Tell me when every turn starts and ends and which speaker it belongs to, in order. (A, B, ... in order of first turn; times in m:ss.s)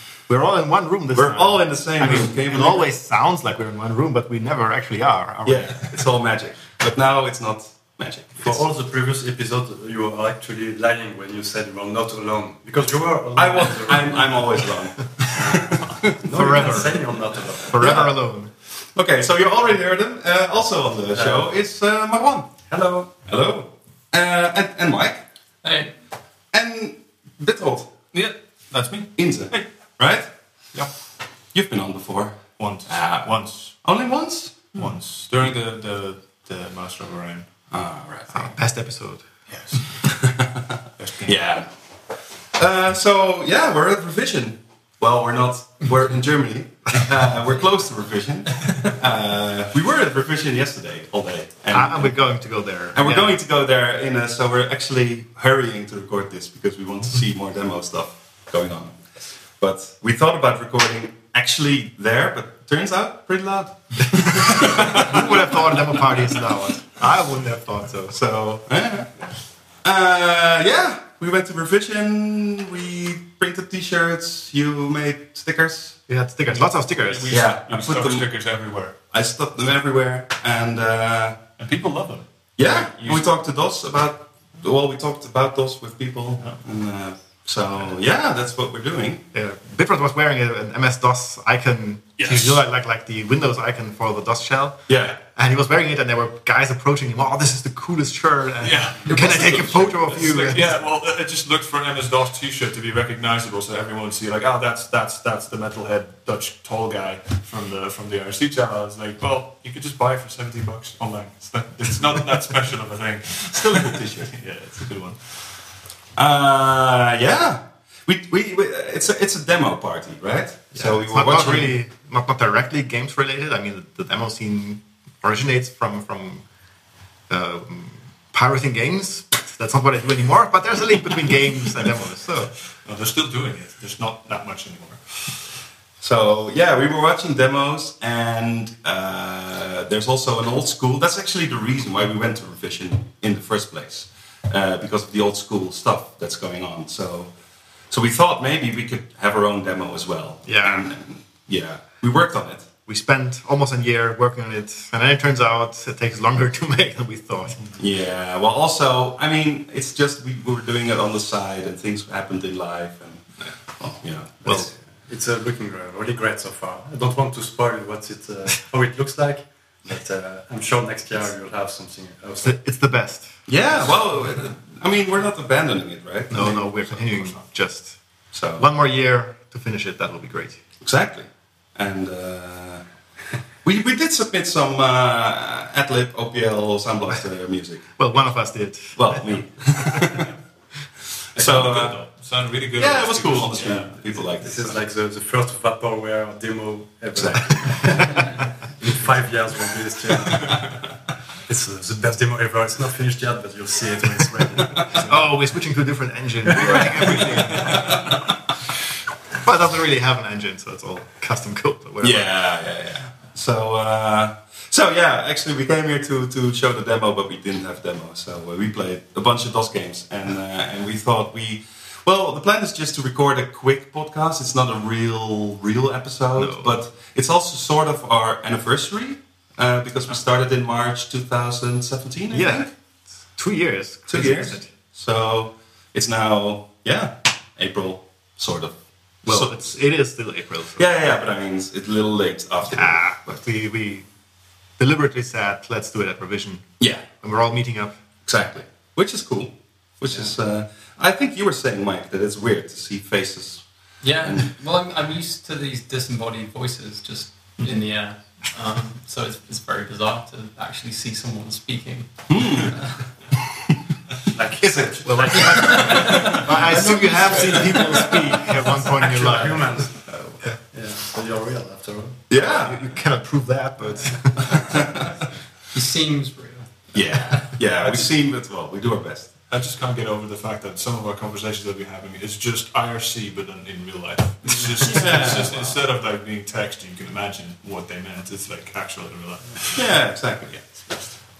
0:00.3-0:05.9 A
0:01.1-0:02.9 B
0:05.4-0:08.6 B
0:08.4-0:14.5 C
0:13.3-0:17.0 B
0:15.2-0:18.0 C
0:16.3-0:18.5 A
0:17.7-0:18.1 B
0:18.9-0:22.7 B
0:21.1-0:21.5 C
0:22.7-0:23.1 C
0:23.2-0:25.2 B
0:25.6-0:25.9 D
0:26.5-0:28.1 B
0:28.1-0:29.6 E
0:29.2-0:30.3 B
0:31.5-0:34.8 B
0:32.6-0:33.7 E
0:34.7-0:37.5 E
0:37.7-0:38.5 B
0:38.3-0:39.2 A
0:39.5-0:40.0 E
0:40.0-0:41.7 B
0:41.0-0:41.4 E
0:42.6-0:52.2 B
0:51.7-0:53.4 A
0:52.9-0:59.0 B
0:59.6-1:05.8 B
1:04.8-1:08.2 A
1:08.1-1:09.1 B
1:09.8-1:16.0 B
1:16.1-1:17.4 A
1:17.1-1:18.9 E
1:17.3-1:18.3 B
1:19.1-1:21.4 B
1:21.6-1:23.3 E
1:22.6-1:29.2 B
1:29.3-1:40.8 A
1:32.2-1:32.6 E
1:34.9-1:35.2 B
1:38.6-1:55.4 E
1:53.5-1:54.3 B
1:56.2-2:01.8 B
2:00.8-2:06.4 A
2:07.3-2:12.5 A
2:12.8-2:15.4 E
2:16.0-2:27.3 B
2:27.9-2:32.7 B
2:30.4-2:30.9 A
2:32.8-2:37.6 A
2:37.8-2:44.6 B
2:44.4-2:52.6 C
2:44.4-2:44.7 A
2:52.4-2:53.3 A
2:53.5-2:56.7 B
2:56.3-2:58.0 A
2:56.9-2:57.4 E
2:58.3-2:58.7 B
2:58.6-3:00.6 A
3:00.8-3:02.8 B
3:03.6-3:07.8 B
3:08.0-3:09.2 A
3:09.0-3:10.3 B
3:11.3-3:12.0 B
3:11.3-3:14.0 E
3:12.7-3:14.8 B
3:14.4-3:20.8 C
3:17.1-3:18.2 B
3:21.4-3:25.2 C
3:25.0-3:28.0 A
3:27.1-3:28.0 E
3:29.3-3:32.4 A
3:32.0-3:52.7 B
3:46.4-3:46.8 A
3:52.3-3:52.7 A
3:53.4-3:54.7 A
3:54.1-3:59.7 B
3:59.2-4:00.9 A
4:00.8-4:03.4 B
4:02.7-4:04.1 A
4:04.8-4:06.7 A
4:06.8-4:07.0 B
4:07.2-4:08.0 A
4:08.2-4:13.6 B
4:14.0-4:22.9 D
4:14.2-4:14.5 B
4:22.3-4:22.8 B
4:24.3-4:32.2 C
4:24.6-4:26.8 B
4:24.9-4:29.9 A
4:27.4-4:27.7 B
4:32.3-4:32.8 B
4:32.4-4:34.9 A
4:34.5-4:35.0 B
4:35.7-4:37.5 D
4:36.9-4:39.3 B
4:37.7-4:38.1 E
4:39.5-4:49.9 E
4:44.8-4:45.8 B
4:49.7-4:50.7 B